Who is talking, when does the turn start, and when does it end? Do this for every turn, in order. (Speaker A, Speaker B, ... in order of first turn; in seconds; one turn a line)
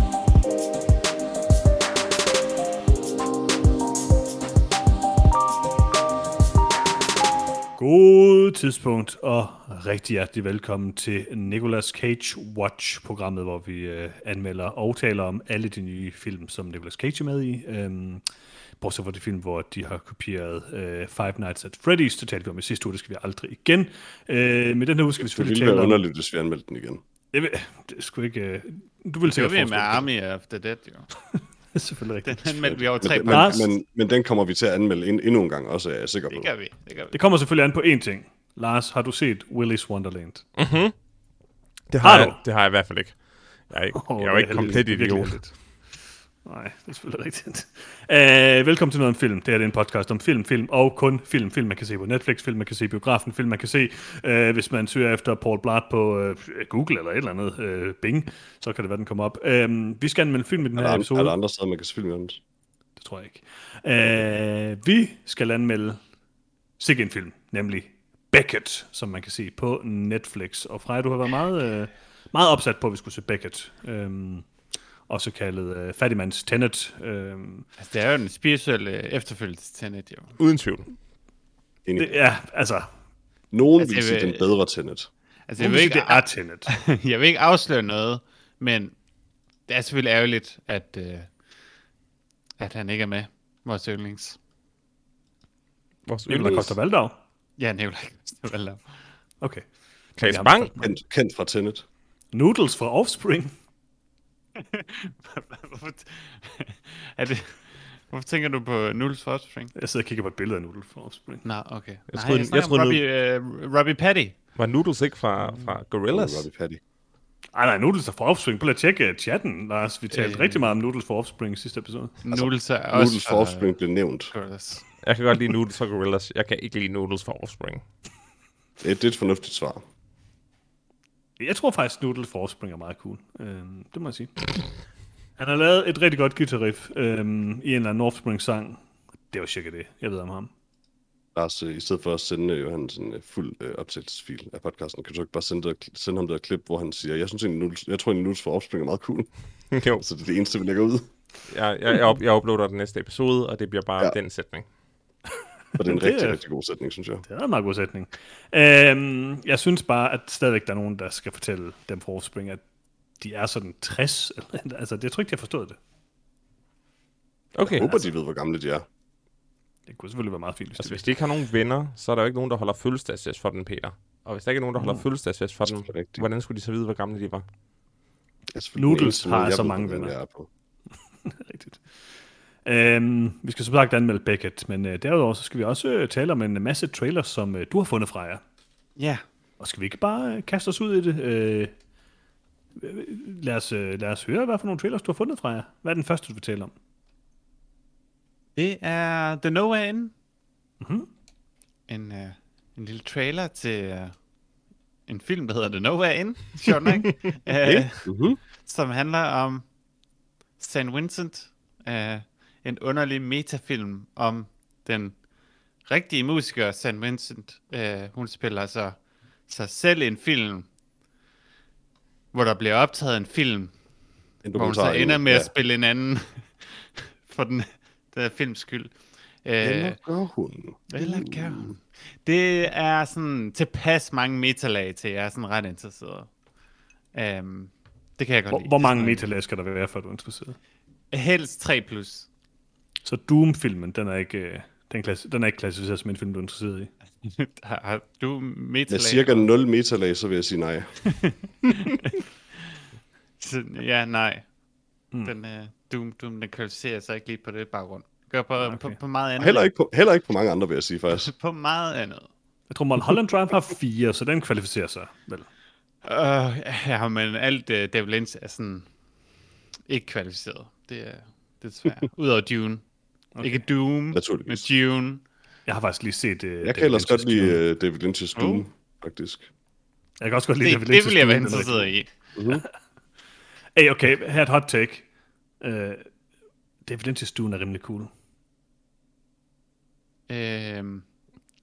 Speaker A: 7.8-18.2
Speaker A: 18.8-26.0
Speaker B: 25.2-27.0
Speaker A: 27.3-30.1
Speaker C: 29.2-31.1
Speaker A: 31.3-33.7
Speaker C: 32.2-33.6
Speaker B: 32.6-36.5
Speaker C: 36.3-37.2
Speaker A: 37.1-40.5
Speaker D: 40.6-41.0
Speaker D: 41.9-45.4
Speaker A: 42.0-42.4
Speaker A: 43.9-61.3
Speaker B: 60.7-62.4
Speaker A: 63.0-66.0
Speaker A: 66.8-74.5
Speaker A: 75.1-77.7
Speaker C: 77.8-80.3
Speaker D: 80.4-80.9
Speaker B: 81.8-82.1
Speaker A: 82.0-82.9
Speaker B: 83.5-85.1
Speaker C: 83.8-84.5
Speaker C: 85.5-88.9
Speaker A: 85.6-86.7
Speaker C: 89.7-91.3
Speaker C: 92.6-94.4
Speaker D: 96.0-96.8
Speaker A: 96.3-97.2
Speaker C: 97.6-99.0
Speaker A: 99.4-100.8
Speaker D: 100.2-100.8
Speaker B: 100.8-101.8
Speaker A: 102.3-103.5
Speaker C: 104.5-109.7
Speaker A: 109.7-111.4
Speaker C: 111.4-114.4
Speaker D: 112.1-113.0
Speaker D: 114.5-116.5
Speaker B: 116.1-116.8
Speaker A: 117.5-122.2
Speaker C: 120.1-120.7
Speaker C: 122.2-124.8
Speaker B: 122.3-124.3
Speaker D: 125.0-127.8
Speaker B: 128.8-129.8
Speaker A: 131.4-134.7
Speaker A: 135.4-138.8
Speaker A: 139.3-140.5
Speaker B: 141.3-151.1
Speaker D: 149.7-150.0
Speaker D: 151.5-154.7
Speaker B: 155.8-157.2
Speaker A: 155.8-156.4
Speaker A: 157.2-162.6
Speaker A: 163.2-165.8
Speaker D: 167.5-167.9
Speaker B: 167.6-168.8
Speaker A: 169.9-171.0
Speaker D: 170.8-177.4
Speaker A: 174.8-175.0
Speaker B: 175.6-176.3
Speaker B: 178.5-180.5
Speaker A: 178.8-180.1
Speaker A: 181.2-181.9
Speaker A: 182.6-188.4
Speaker C: 189.0-189.2
Speaker A: 189.6-191.7
Speaker A: 192.8-196.7
Speaker C: 198.6-200.1
Speaker A: 200.8-201.1
Speaker C: 201.9-204.2
Speaker C: 205.1-209.7
Speaker B: 207.6-208.4
Speaker C: 210.6-215.2
Speaker C: 215.8-220.7
Speaker C: 222.3-223.8
Speaker B: 224.4-225.5
Speaker C: 224.5-230.0
Speaker B: 229.6-231.7
Speaker C: 230.9-236.3
Speaker C: 237.1-239.2
Speaker A: 238.5-240.6
Speaker C: 241.1-242.3
Speaker A: 243.0-246.9
Speaker C: 247.2-249.5
Speaker B: 248.9-251.0
Speaker C: 251.2-252.2
Speaker C: 253.4-254.5
Speaker C: 255.2-259.7
Speaker A: 258.6-259.0
Speaker B: 259.4-261.3
Speaker C: 261.2-262.3
Speaker A: 262.7-265.5
Speaker C: 266.0-268.9
Speaker C: 269.9-272.8
Speaker A: 273.3-273.6
Speaker C: 273.4-275.2
Speaker B: 274.1-274.6
Speaker A: 275.6-277.6
Speaker B: 276.6-279.5
Speaker C: 278.4-278.6
Speaker A: 280.2-281.9
Speaker C: 280.6-282.1
Speaker B: 282.4-282.6
Speaker A: 283.8-285.1
Speaker A: 285.6-286.1
Speaker A: 286.8-288.1
Speaker C: 290.3-291.0